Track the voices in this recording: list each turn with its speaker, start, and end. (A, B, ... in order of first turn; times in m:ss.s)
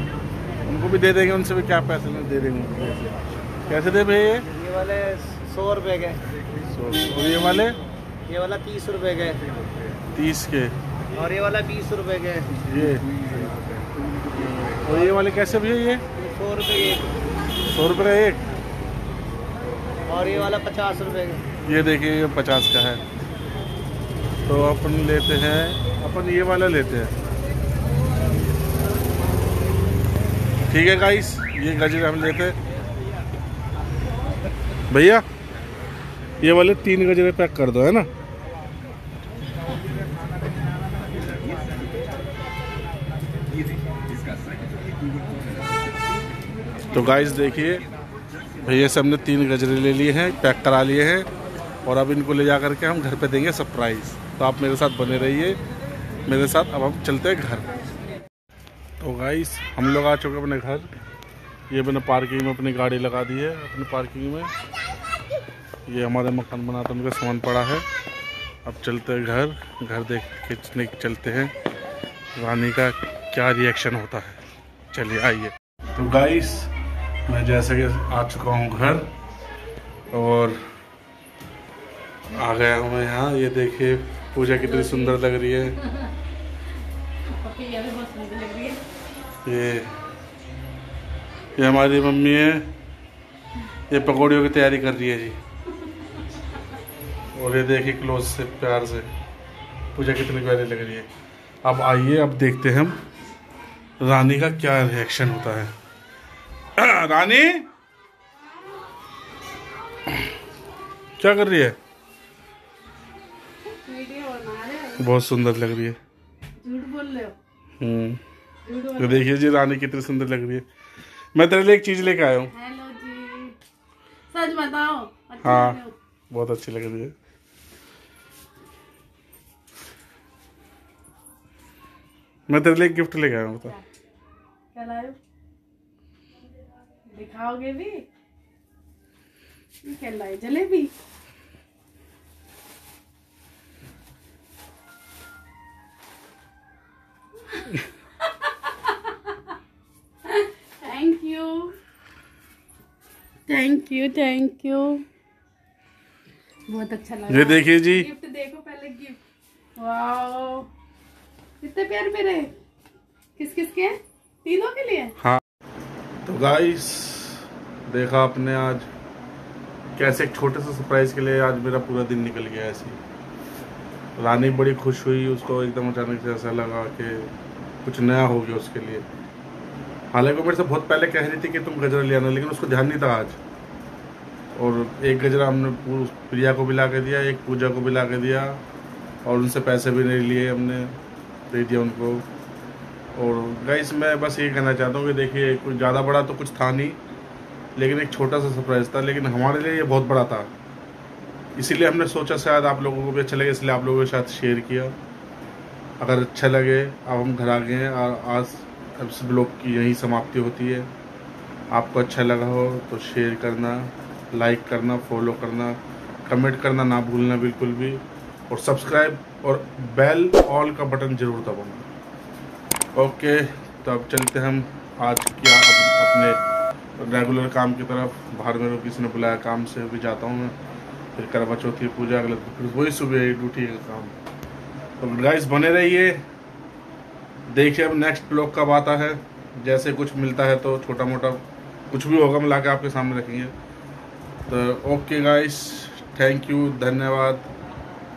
0:00.6-0:04.5 A
0:04.5-0:06.2 B
0:06.7-0:07.8 A
0:08.2-0:09.5 B
0:10.1-0:10.7 A
0:11.1-0:12.6 B
0:12.6-0:13.4 A
0:14.4-0:16.0 A
0:16.2-0:17.1 B
0:17.7-0:18.5 A
0:20.0-0:21.4 B
0:21.6-0:23.0 A
0:24.4-0:27.1 A
0:30.7-0:32.6 A
0:34.9-0:35.2 A
0:36.4-0:38.1 A
0:46.9-0:47.8 A
0:48.6-0:51.3 A
0:51.8-0:55.6 A
0:56.2-0:57.7 A
0:59.0-1:00.9 A
1:01.7-1:04.5 A
1:05.8-1:07.8 A
1:08.6-1:11.5 A
1:12.3-1:14.4 A
1:14.9-1:16.7 A
1:17.3-1:19.1 A
1:20.1-1:20.6 A
1:22.3-1:25.8 A
1:24.8-1:25.2 C
1:27.3-1:28.8 C
1:29.4-1:29.9 A
1:31.6-1:32.7 A
1:33.9-1:35.4 A
1:37.3-1:39.1 A
1:39.9-1:41.1 A
1:41.6-1:43.0 A
1:44.0-1:45.7 A
1:46.8-1:47.7 A
1:51.2-1:51.8 A
1:53.6-1:55.1 C
1:55.0-1:56.0 A
1:56.6-1:57.4 C
1:57.8-1:58.2 A
1:58.6-1:59.3 C
1:59.0-2:00.6 A
2:01.3-2:02.5 A
2:02.5-2:03.6 C
2:04.3-2:06.0 C
2:05.4-2:07.1 A
2:12.5-2:13.8 A
2:14.7-2:15.2 C
2:17.1-2:18.0 C
2:19.8-2:20.9 C
2:27.6-2:27.8 C
2:28.3-2:29.4 C
2:30.2-2:31.8 C
2:33.5-2:35.0 C
2:36.7-2:39.2 C
2:37.3-2:38.1 A
2:39.8-2:40.7 C
2:41.6-2:42.5 C
2:43.4-2:45.1 C
2:46.2-2:48.9 A
2:50.0-2:53.0 A
2:54.2-2:57.3 A
2:57.8-2:59.0 A
3:00.1-3:03.4 A
3:04.6-3:08.6 A
3:09.2-3:10.9 A
3:11.5-3:12.2 A
3:13.1-3:17.0 A
3:17.8-3:20.5 A
3:21.6-3:24.9 A
3:26.0-3:30.9 A
3:31.7-3:41.8 A
3:42.9-3:46.4 A
3:47.0-3:50.5 A
3:51.1-3:54.1 A
3:55.0-3:56.2 A
3:57.5-4:03.5 A
4:04.5-4:07.5 A